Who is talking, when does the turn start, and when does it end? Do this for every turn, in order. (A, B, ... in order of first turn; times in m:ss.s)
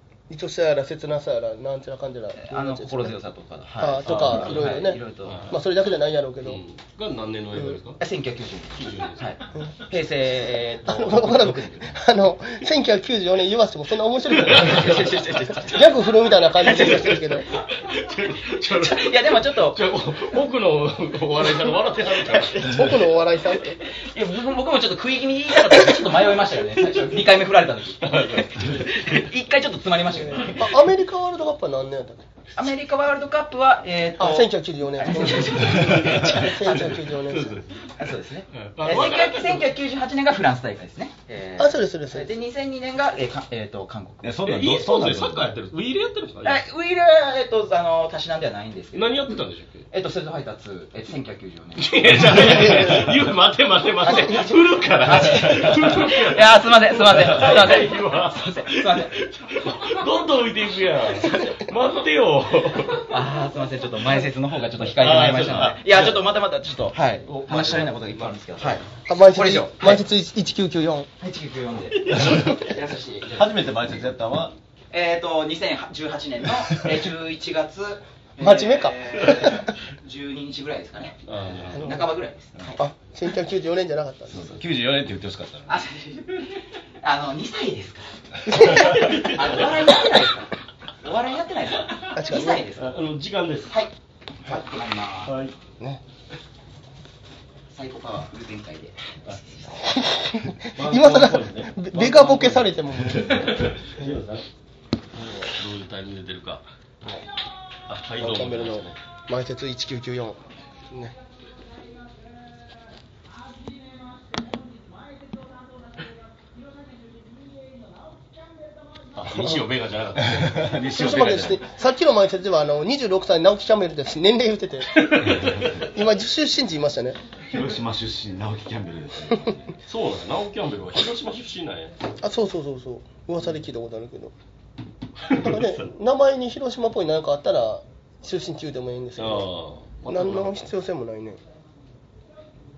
0:00.3-0:03.2 A
0:02.4-0:05.5 B
0:03.8-0:06.6 A
0:04.0-0:04.7 C
0:05.2-0:05.6 C
0:06.4-0:08.0 C
0:08.0-0:12.0 B
0:08.7-0:09.3 C
0:10.8-0:17.5 A
0:14.5-0:17.4 B
0:14.5-0:15.0 C
0:17.7-0:22.8 C
0:18.8-0:19.8 B
0:22.6-0:23.8 A
0:23.6-0:30.8 B
0:28.0-0:29.3 C
0:30.6-0:32.3 A
0:32.6-0:37.1 B
0:34.2-0:37.7 A
0:36.6-0:37.7 C
0:37.9-0:44.2 B
0:38.5-0:39.7 C
0:41.6-0:42.3 A
0:44.2-0:45.6 D
0:44.4-0:46.6 C
0:46.4-0:49.2 B
0:48.9-0:49.9 C
0:49.9-0:52.8 B
0:51.8-1:03.1 C
0:52.4-0:53.1 A
0:54.1-0:54.5 B
0:55.0-0:59.2 B
1:01.2-1:01.6 B
1:03.1-1:10.0 B
1:04.8-1:06.2 C
1:07.3-1:08.8 C
1:09.1-1:11.1 A
1:11.2-1:13.6 B
1:12.2-1:12.6 D
1:13.3-1:14.6 D
1:14.9-1:22.8 B
1:18.4-1:19.5 A
1:21.2-1:21.9 C
1:21.7-1:22.1 A
1:22.7-1:24.6 A
1:24.3-1:25.7 D
1:25.7-1:32.9 B
1:28.5-1:29.1 A
1:28.8-1:30.0 C
1:32.2-1:32.7 A
1:32.3-1:33.8 C
1:33.7-1:33.9 B
1:34.4-1:35.4 B
1:35.3-1:35.6 C
1:37.7-1:40.1 B
1:39.8-1:44.1 A
1:40.7-1:44.5 C
1:45.2-1:45.5 A
1:45.5-1:46.7 C
1:47.9-1:49.0 C
1:48.2-1:50.4 A
1:50.9-1:51.2 A
1:59.2-2:00.8 C
1:59.3-1:59.6 A
2:00.3-2:01.6 D
2:00.9-2:05.3 A
2:05.0-2:05.7 C
2:05.3-2:05.8 D
2:05.8-2:07.2 A
2:07.5-2:09.6 D
2:09.9-2:12.0 C
2:12.2-2:14.3 A
2:15.3-2:15.9 C
2:15.3-2:19.5 A
2:19.2-2:20.6 C
2:20.1-2:21.4 A